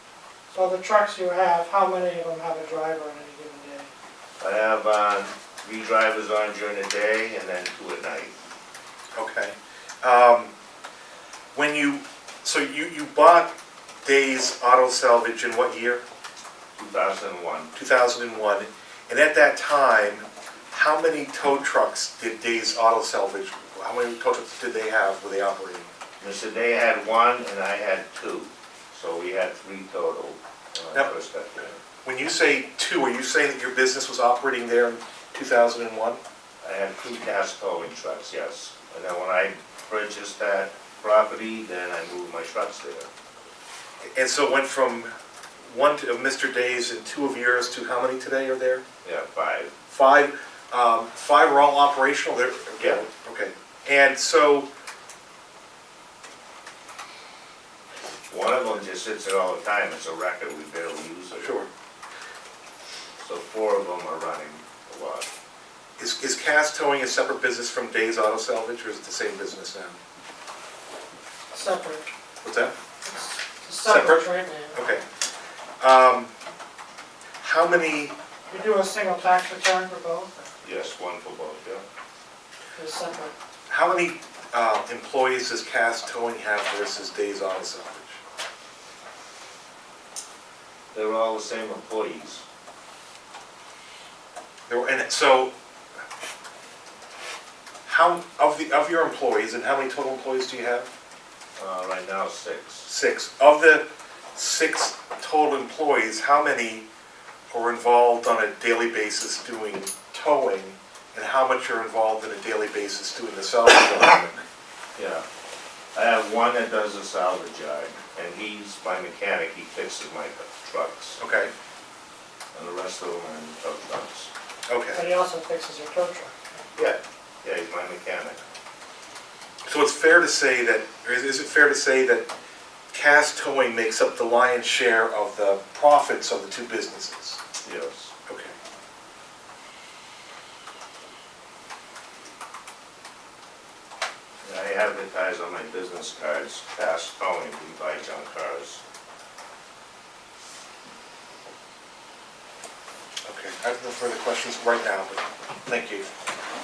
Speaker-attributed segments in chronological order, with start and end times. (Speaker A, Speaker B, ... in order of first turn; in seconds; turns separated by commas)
Speaker A: 0.5-3.9, Speaker B: 4.4-8.3, Speaker C: 9.2-10.5, Speaker C: 11.5-13.5, Speaker C: 14.0-16.0, Speaker B: 16.8-17.7, Speaker C: 17.8-25.9, Speaker B: 26.2-31.8, Speaker C: 32.0-36.2, Speaker B: 36.6-43.1, Speaker C: 44.1-45.1, Speaker C: 45.6-48.8, Speaker B: 49.0-49.8, Speaker C: 49.9-54.7, Speaker B: 58.3-61.5, Speaker C: 61.4-61.7, Speaker B: 63.2-65.3, Speaker C: 66.0-70.0, Speaker A: 71.5-72.1, Speaker C: 72.4-72.7, Speaker A: 73.0-74.8, Speaker C: 73.9-75.0, Speaker C: 75.8-76.3, Speaker C: 77.4-78.1, Speaker A: 78.5-80.5, Speaker B: 80.6-81.8, Speaker A: 82.8-83.3, Speaker C: 83.7-88.2, Speaker B: 90.9-92.5, Speaker C: 94.7-95.5, Speaker C: 97.9-100.9, Speaker B: 101.6-102.9, Speaker C: 102.9-106.9, Speaker C: 107.5-114.4, Speaker B: 115.0-115.2, Speaker B: 116.0-121.2, Speaker C: 121.2-121.5, Speaker B: 122.5-124.3, Speaker C: 124.7-125.0, Speaker A: 124.9-126.7, Speaker B: 126.8-128.4, Speaker C: 129.7-132.3, Speaker C: 132.9-137.4, Speaker B: 137.6-138.1, Speaker C: 138.3-138.5, Speaker B: 144.4-148.8, Speaker C: 153.3-156.1